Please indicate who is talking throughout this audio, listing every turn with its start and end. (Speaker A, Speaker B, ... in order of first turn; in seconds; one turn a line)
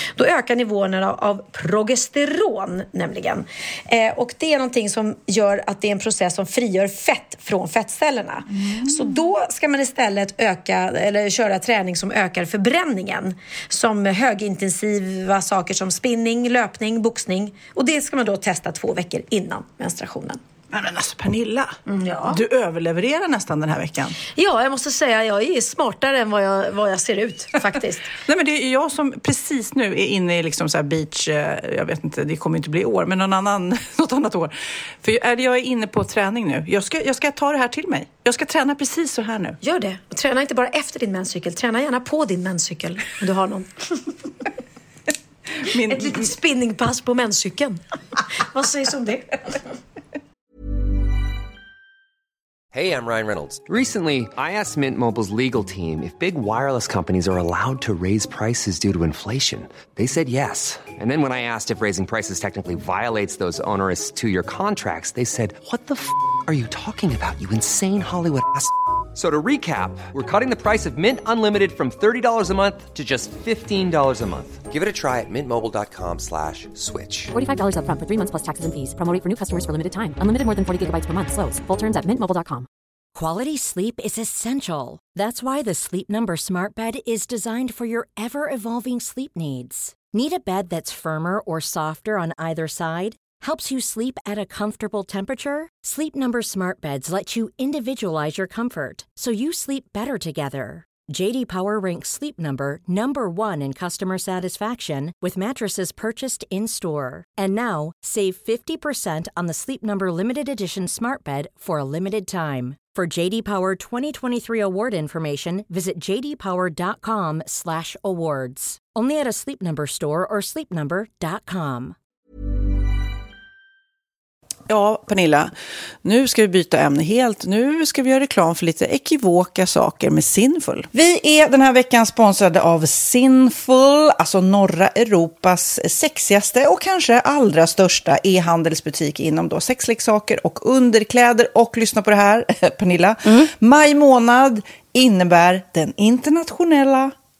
Speaker A: 0.1-20.4
Speaker B: 8.6-9.1
Speaker B: 20.7-24.2
Speaker A: 21.9-22.4
Speaker A: 24.3-28.1
Speaker B: 28.2-39.6
Speaker A: 39.6-44.1
Speaker B: 45.6-46.3
Speaker A: 45.7-49.6
Speaker C: 52.7-77.3
Speaker D: 77.3-82.7
Speaker E: 83.1-121.9
Speaker B: 124.7-125.5
Speaker B: 126.0-147.1
Speaker A: 143.2-143.5